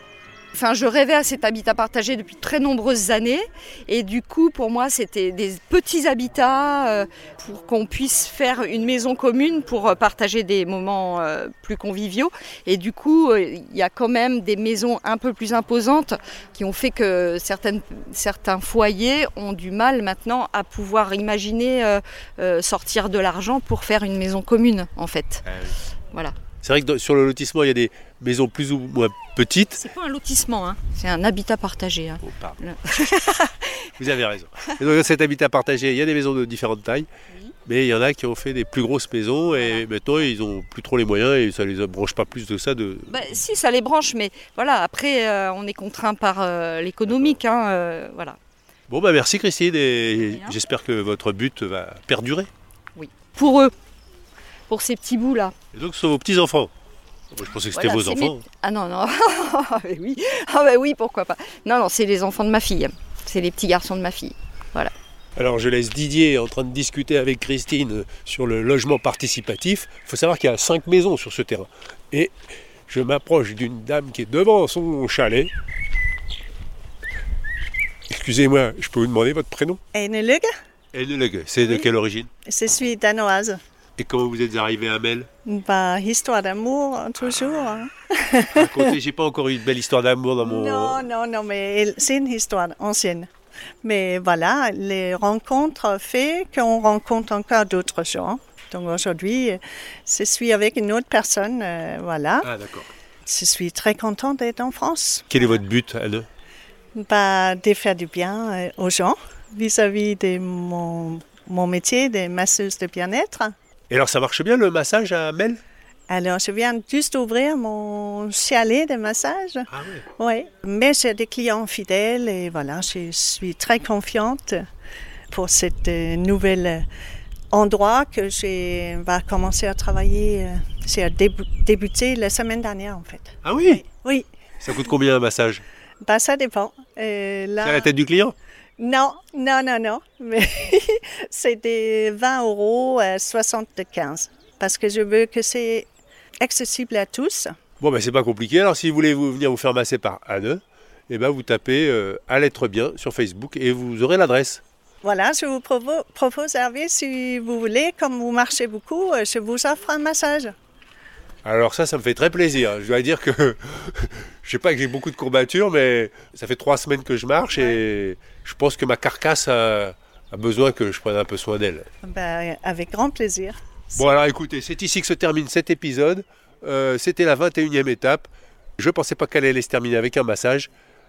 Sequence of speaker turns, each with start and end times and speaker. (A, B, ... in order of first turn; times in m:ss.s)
0:00.5-0:25.4 A
0:25.4-0:25.8 B
0:26.6-0:29.8 B
0:29.7-0:33.7 A
0:32.2-0:32.6 B
0:34.0-0:37.1 B
0:37.6-0:43.1 B
0:39.5-0:39.9 A
0:43.1-0:48.4 A
0:47.1-0:47.4 B
0:48.9-0:52.5 B
0:50.2-0:50.5 A
0:52.9-0:53.7 A
0:54.7-0:55.5 A
0:55.7-0:56.7 B
0:57.3-0:58.4 B
0:57.7-1:04.9 A
1:05.4-1:12.3 B
1:12.9-1:15.5 B
1:18.1-1:19.8 B
1:19.9-1:20.5 C
1:20.9-1:22.3 B
1:22.4-1:23.6 C
1:24.0-1:25.3 B
1:25.4-1:28.6 C
1:28.5-1:31.0 B
1:30.4-1:33.3 C
1:33.8-1:42.5 C
1:42.4-1:42.9 B
1:43.3-1:45.3 C
1:45.3-1:46.3 B
1:47.0-1:53.5 C
1:53.9-1:55.6 B
1:56.1-1:59.7 C
1:59.7-2:00.0 B
2:00.2-2:04.6 C
2:05.3-2:06.8 C
2:07.5-2:14.3 C
2:13.4-2:13.8 B
2:14.6-2:15.6 B
2:16.0-2:17.9 C
2:17.6-2:18.4 B
2:18.8-2:25.9 C
2:26.4-2:27.5 C
2:27.8-2:34.6 B
2:35.0-2:40.5 C
2:41.4-2:51.9 B
2:52.0-2:54.1 C
2:54.0-3:00.7 B